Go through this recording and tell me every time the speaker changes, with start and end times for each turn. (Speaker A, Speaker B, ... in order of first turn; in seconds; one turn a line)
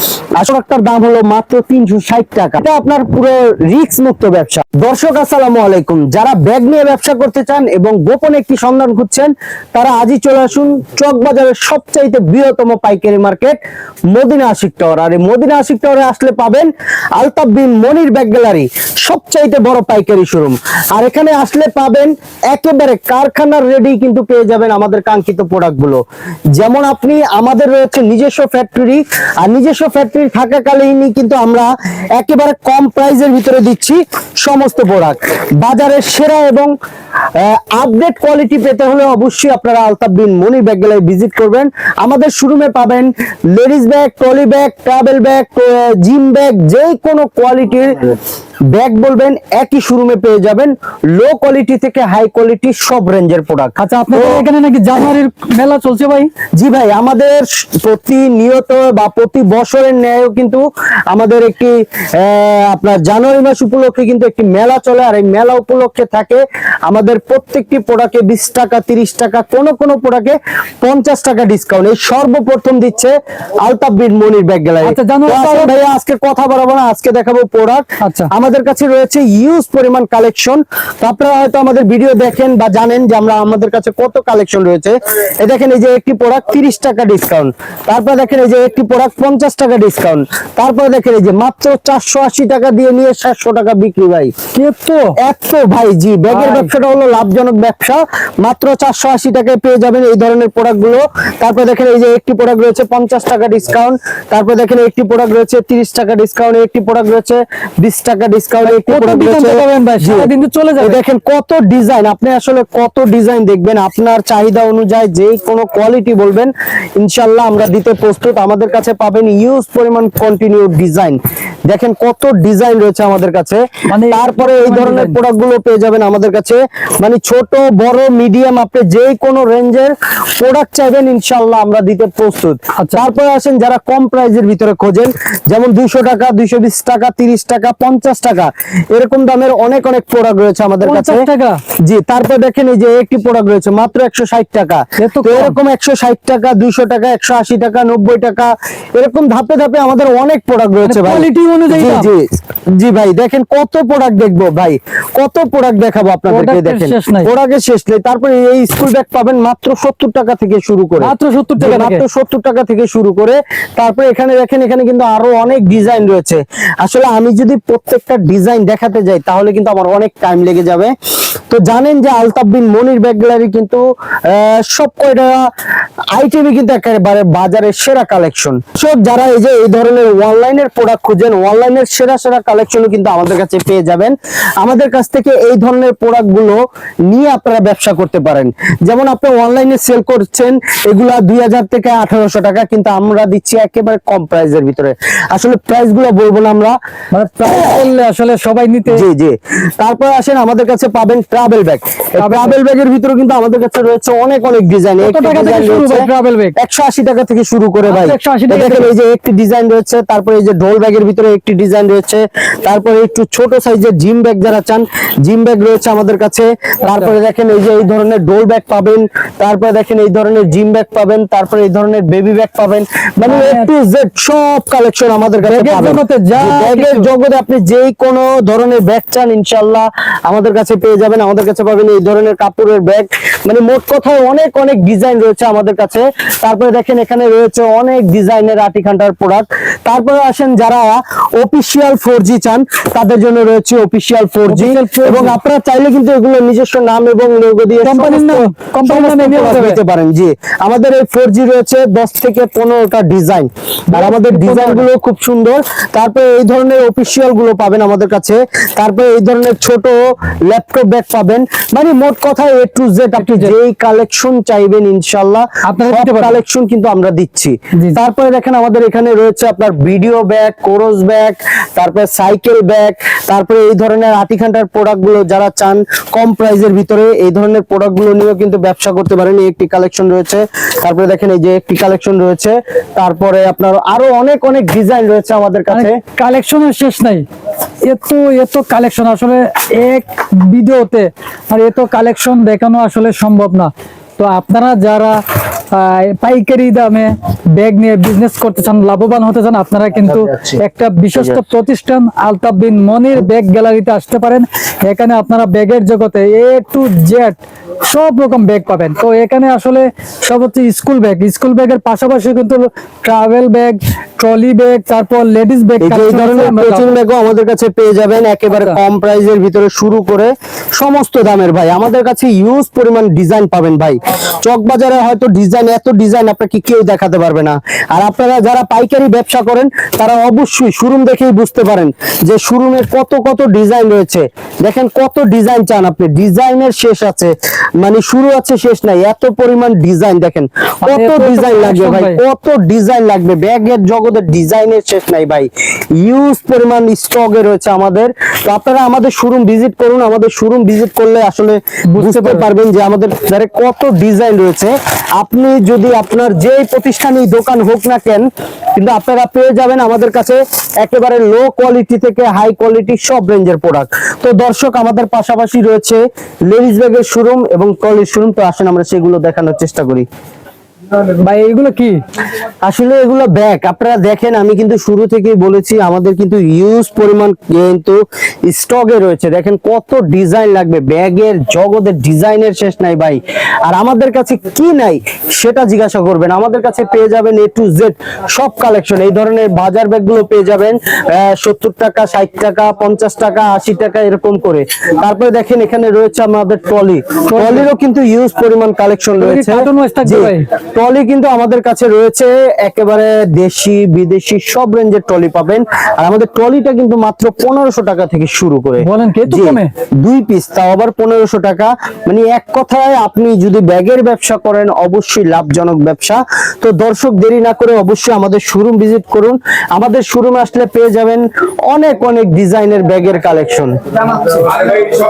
Speaker A: 0.4-13.6
Speaker A: 14.1-26.0
Speaker A: 26.5-36.7
Speaker A: 37.4-48.2
Speaker A: 48.7-54.4
Speaker B: 53.8-56.3
Speaker A: 56.6-94.3
Speaker B: 74.8-75.7
Speaker B: 78.0-78.3
Speaker B: 94.5-95.2
Speaker A: 95.2-141.2
Speaker B: 96.3-96.7
Speaker B: 108.6-111.0
Speaker B: 123.9-125.2
Speaker B: 132.8-133.0
Speaker B: 140.8-141.6
Speaker A: 141.8-170.9
Speaker B: 145.0-145.6
Speaker B: 150.8-152.1
Speaker B: 156.3-157.3
Speaker B: 161.0-162.0
Speaker A: 171.5-175.4
Speaker A: 176.1-196.8
Speaker B: 197.1-199.0
Speaker A: 197.4-197.7
Speaker A: 198.9-286.0
Speaker B: 202.2-202.6
Speaker B: 205.0-206.6
Speaker B: 207.8-208.9
Speaker B: 223.2-223.7
Speaker B: 225.4-227.1
Speaker B: 244.5-245.4
Speaker B: 247.8-249.8
Speaker B: 253.9-254.9
Speaker B: 263.2-263.5
Speaker B: 265.6-266.4
Speaker B: 267.7-268.0
Speaker B: 285.7-287.2
Speaker B: 287.9-295.2
Speaker B: 295.7-316.9
Speaker A: 299.9-300.6
Speaker A: 315.8-345.5
Speaker B: 318.5-318.8
Speaker B: 340.8-342.2
Speaker A: 346.0-370.1
Speaker B: 351.9-352.4
Speaker B: 370.9-372.0
Speaker A: 372.6-424.4
Speaker B: 397.3-397.7
Speaker B: 399.2-400.4
Speaker B: 408.8-409.7